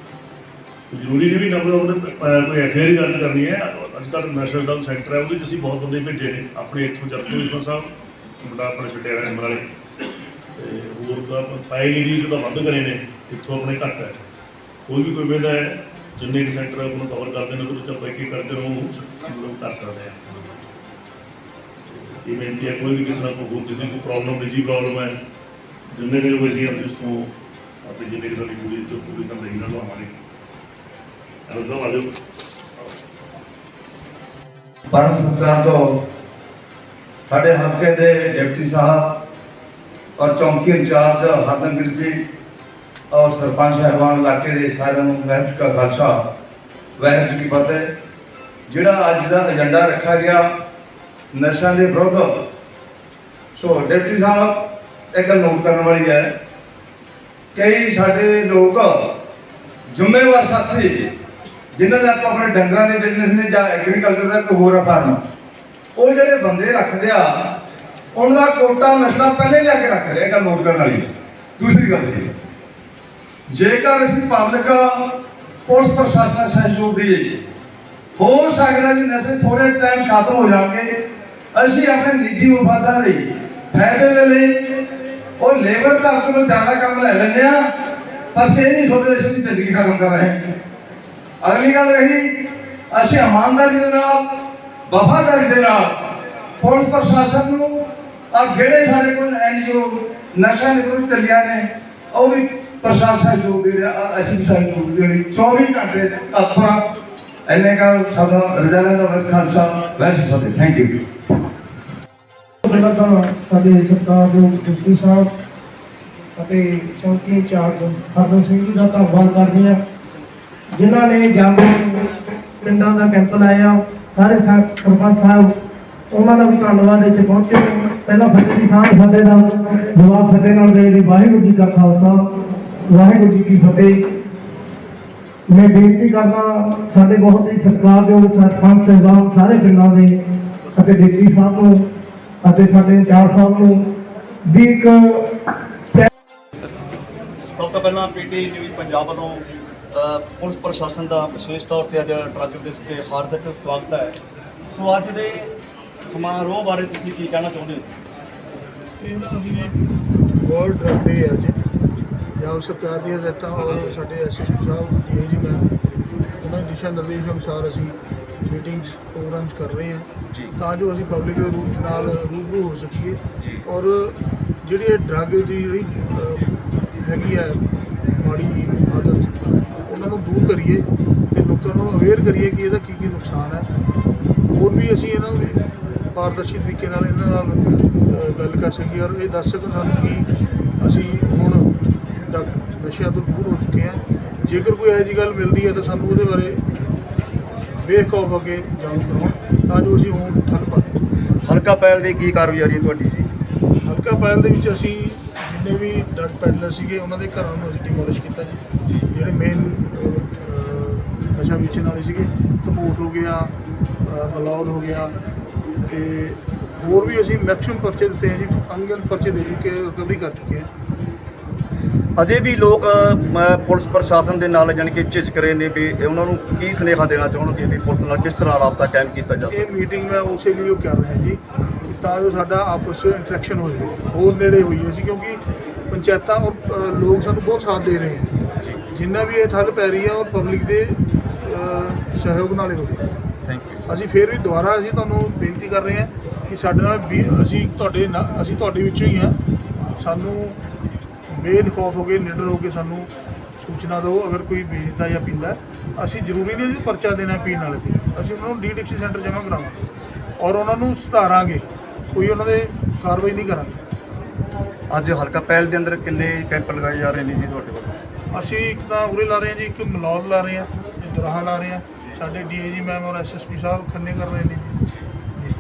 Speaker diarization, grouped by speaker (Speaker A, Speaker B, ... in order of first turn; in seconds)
Speaker A: 0.9-7.9, 8.4-9.7, 10.6-14.2, 14.9-20.2, 21.9-25.1, 25.9-27.3, 27.8-30.2, 31.5-32.1
Speaker B: 34.9-35.8, 37.3-39.2, 40.2-42.1, 43.1-46.1, 47.0-47.9, 48.7-50.5, 51.3-52.4, 53.5-56.3, 57.5-59.1, 59.9-61.1, 61.7-65.2, 66.0-67.6, 68.1-72.3, 73.5-77.4, 78.1-80.9, 81.5-84.8, 85.4-87.7, 88.3-90.5, 91.4-96.0, 96.6-106.9, 107.5-111.0
Speaker C: 112.6-115.3, 116.3-119.8, 120.7-125.5, 126.1-132.2, 132.8-134.0, 135.5-140.2, 140.7-141.8, 142.4-143.8, 144.4-145.3
Speaker D: 147.5-154.2, 154.7-155.5, 156.1-157.9, 201.4-203.3, 222.2-229.6, 243.4-243.8, 264.9-268.0
Speaker E: 159.0-161.6, 162.3-165.7, 166.4-183.7, 184.5-196.7, 197.8-200.9, 203.8-215.1, 215.9-220.7, 229.5-235.4, 235.9-238.3, 238.9-243.1, 243.8-249.4, 250.0-250.6, 251.3-259.8, 260.4-263.8, 268.3-274.8